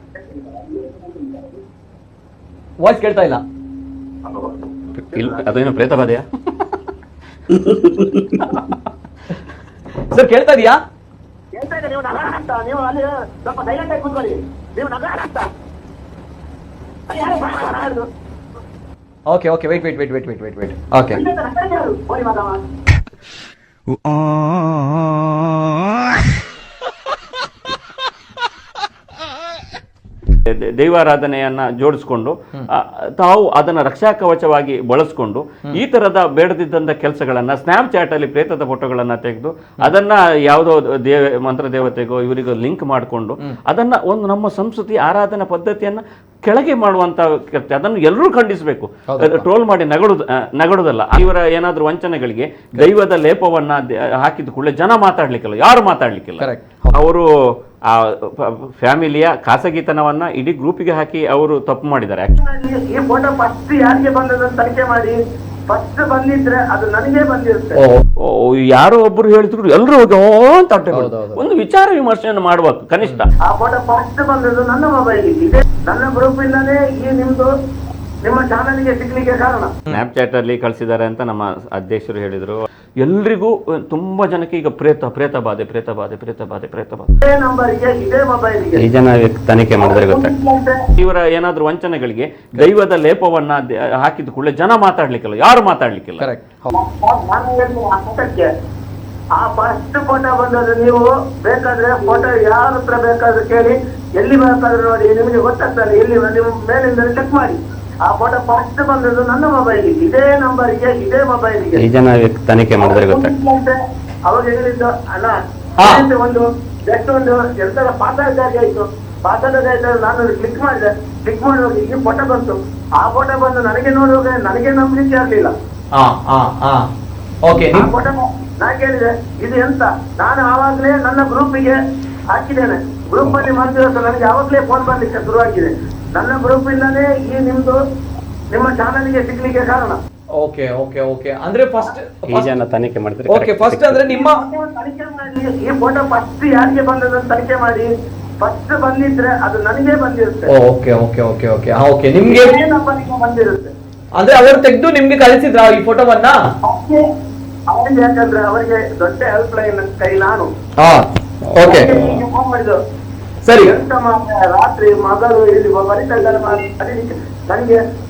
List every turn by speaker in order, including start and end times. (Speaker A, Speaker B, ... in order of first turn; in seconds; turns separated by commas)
Speaker A: 0.2-1.5, Speaker B: 2.8-3.4, Speaker A: 4.2-4.6, Speaker C: 4.9-6.8, Speaker A: 5.1-5.6, Speaker C: 7.6-8.4, Speaker B: 10.1-10.8, Speaker A: 11.5-15.5, Speaker A: 17.1-18.1, Speaker B: 19.3-21.2, Speaker A: 21.1-22.6, Speaker C: 30.4-62.4, Speaker B: 49.1-49.4, Speaker B: 56.4-57.0, Speaker A: 62.4-67.8, Speaker B: 67.8-68.0, Speaker C: 68.2-73.3, Speaker B: 70.9-71.4, Speaker A: 73.4-77.5, Speaker A: 78.2-79.7, Speaker C: 79.9-87.1, Speaker A: 87.2-88.9, Speaker C: 88.7-90.3, Speaker A: 89.8-90.8, Speaker C: 91.0-96.3, Speaker B: 96.2-96.7, Speaker A: 96.7-98.5, Speaker A: 99.3-111.8, Speaker C: 111.8-113.3, Speaker A: 112.8-125.5, Speaker B: 115.8-116.1, Speaker B: 126.0-126.9, Speaker B: 127.4-127.9, Speaker A: 127.7-131.8, Speaker A: 132.3-137.8, Speaker C: 133.2-133.5, Speaker A: 138.5-140.0, Speaker B: 140.4-142.5, Speaker C: 142.3-144.2, Speaker B: 143.3-144.4, Speaker A: 144.1-150.5, Speaker B: 150.5-152.6, Speaker A: 152.2-153.7, Speaker B: 154.2-156.5, Speaker A: 156.6-157.0, Speaker A: 157.7-160.5, Speaker B: 160.8-162.1, Speaker A: 161.6-162.8, Speaker B: 163.4-163.7, Speaker A: 163.6-167.8